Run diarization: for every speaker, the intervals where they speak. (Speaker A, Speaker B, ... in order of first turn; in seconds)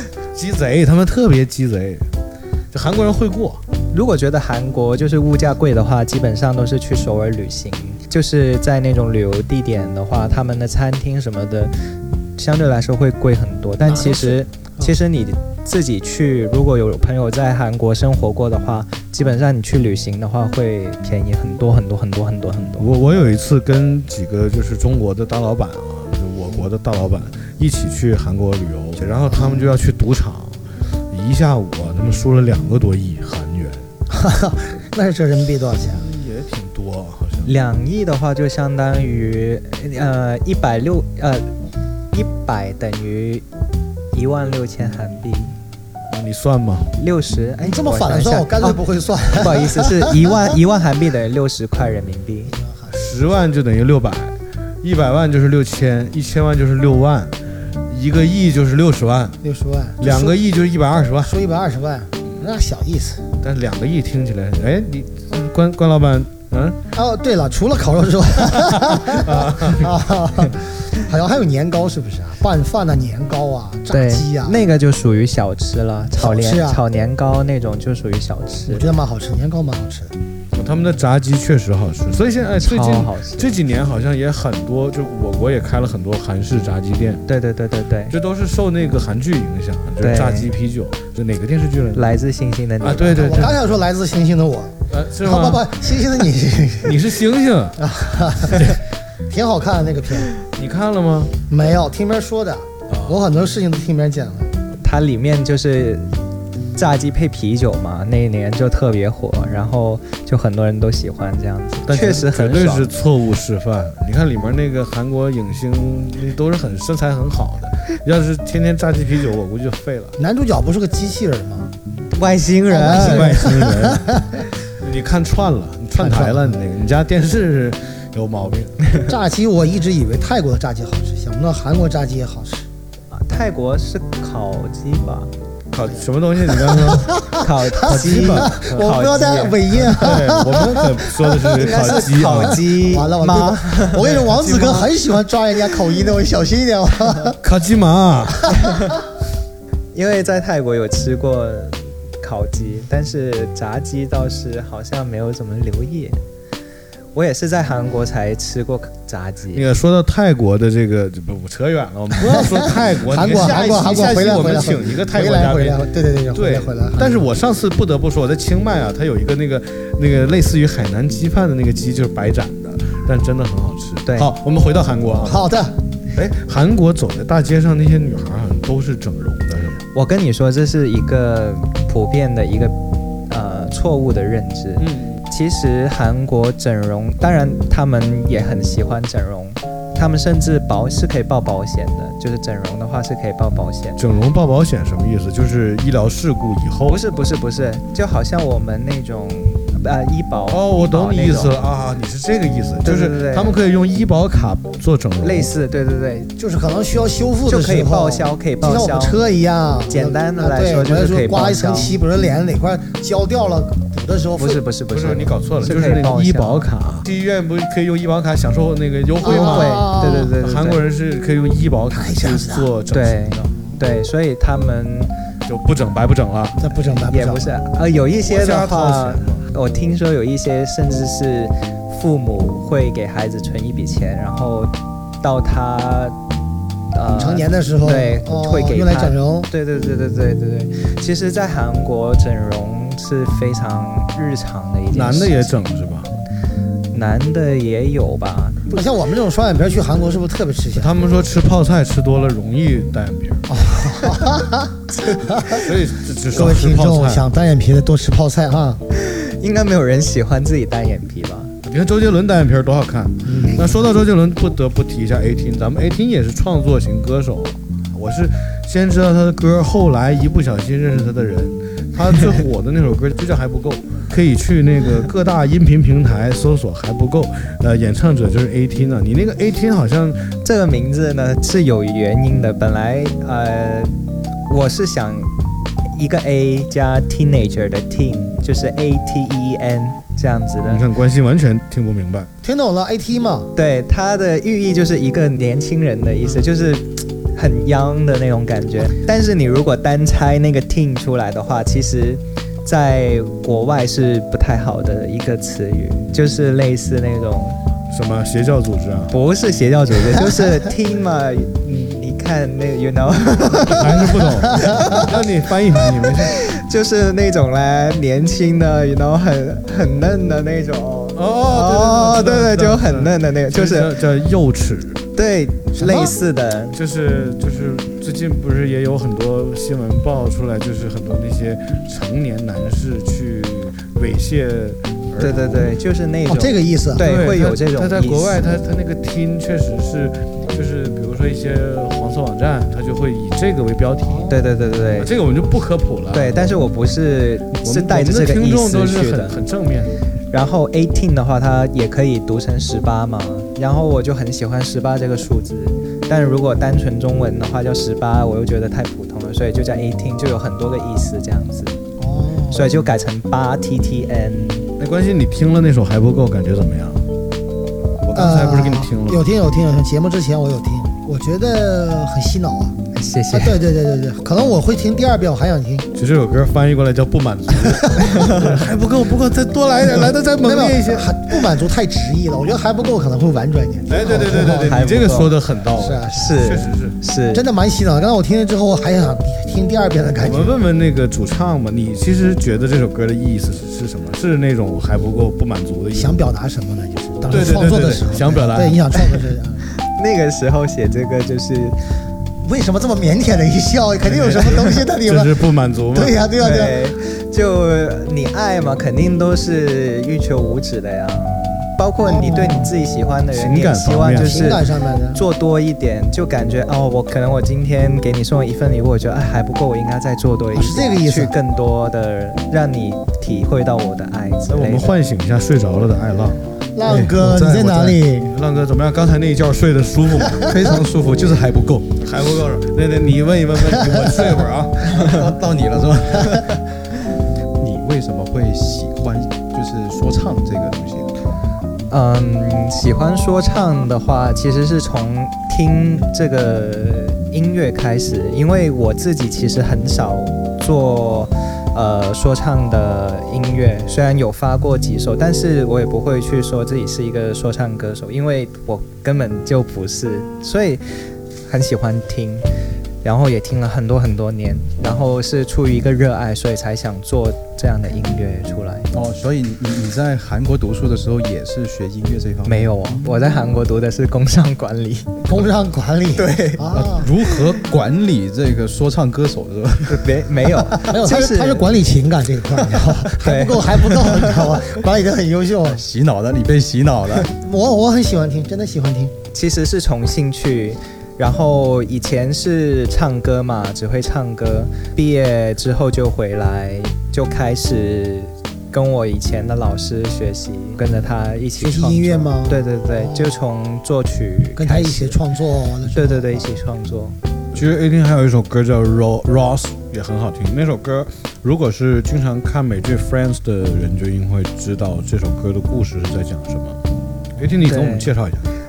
Speaker A: 0.3-2.1, 2.7-3.6, 22.8-30.6, 31.1-33.9, 35.9-37.5, 46.1-46.9, 52.9-59.4, 60.0-61.3, 63.4-66.8, 68.5-70.0, 80.5-87.2, 88.1-92.1, 92.8-93.6, 94.9-95.7, 96.8-97.8, 98.5-98.8, 100.5-101.3, 102.9-103.2, 111.9-120.2, 122.9-128.8, 135.7-139.0, 139.7-142.6, 144.3-144.9, 147.4-148.5, 159.5-165.8, 166.3-175.4, 176.1-179.8, 184.8-185.2, 194.0-197.0, 200.5-205.5, 214.9-223.6, 225.4-226.6, 228.2-229.5, 244.9-246.1, 250.7-253.4, 255.4-257.2, 261.6-280.3, 290.6-292.3, 307.9-309.1, 313.6-316.4, 321.1-325.0, 326.7-335.8, 337.0-344.4, 344.9-346.6, 347.5-350.0, 364.8-367.0, 368.0-369.2, 375.9-381.3, 383.9-387.0, 390.2-396.2, 397.3-398.8, 404.0-406.2, 413.3-414.6, 424.5-430.6, 432.0-435.1, 476.7-477.6, 507.5-516.8, 517.4-518.5
Speaker B: 3.9-11.7, 12.4-22.9, 37.4-41.5, 42.1-43.4, 44.1-45.5, 47.0-48.8, 49.3-52.5, 73.9-78.9, 82.6-83.5, 87.3-88.1, 90.0-90.5, 91.9-93.5, 104.8-106.1, 106.8-112.9, 122.1-123.4, 133.1-135.3, 137.4-139.6, 141.6-144.4, 148.5-148.9, 149.9-156.2, 157.1-159.7, 174.1-174.3, 179.9-182.8, 183.3-194.0, 196.9-201.5, 202.8-203.6, 205.2-206.3, 207.4-209.2, 209.9-211.9, 214.4-216.7, 219.2-220.8, 222.9-225.1, 227.1-236.2, 236.9-245.5, 246.9-248.8, 258.9-261.5, 280.4-283.9, 284.5-285.3, 285.9-290.8, 293.5-307.6, 309.1-315.1, 316.1-323.9, 325.1-326.8, 335.2-338.4, 344.3-345.1, 346.1-349.4, 350.3-361.8, 362.5-364.7, 372.9-373.6, 378.1-378.5, 384.5-385.4, 386.1-387.4, 399.8-401.8, 406.4-424.9, 441.9-460.8, 461.5-462.5, 463.0-468.9, 472.4-475.2, 476.1-476.7, 479.9-481.7, 483.0-484.5, 489.3-505.2, 505.9-507.2, 517.6-518.1
Speaker C: 13.8-14.9, 29.3-29.7, 34.1-36.0, 47.6-50.4, 52.5-53.0, 59.4-60.4, 61.1-63.3, 66.9-74.6, 76.2-76.8, 78.7-80.1, 93.1-97.1, 97.8-100.3, 101.5-104.5, 120.2-121.7, 122.7-124.5, 126.0-126.6, 129.0-132.7, 135.9-147.4, 162.2-167.3, 175.2-175.8, 206.4-214.6, 219.2-220.3, 221.9-222.7, 226.6-227.5, 237.1-239.5, 248.7-250.9, 253.5-255.7, 256.3-258.8, 263.2-263.8, 292.4-293.5, 325.8-326.1, 336.3-337.0, 344.1-344.4, 362.0-362.7, 368.1-372.8, 373.3-375.9, 379.8-384.8, 385.8-386.4, 387.3-390.6, 395.9-399.6, 402.4-405.3, 405.9-406.8, 412.1-412.7, 414.2-415.2, 420.5-421.3, 426.8-428.3, 475.2-477.1, 480.7-485.8, 487.3-489.1, 501.6-503.3, 504.6-506.5
Speaker D: 430.4-432.0, 434.8-436.6, 437.6-441.3, 468.9-472.8, 477.0-480.2, 485.6-487.3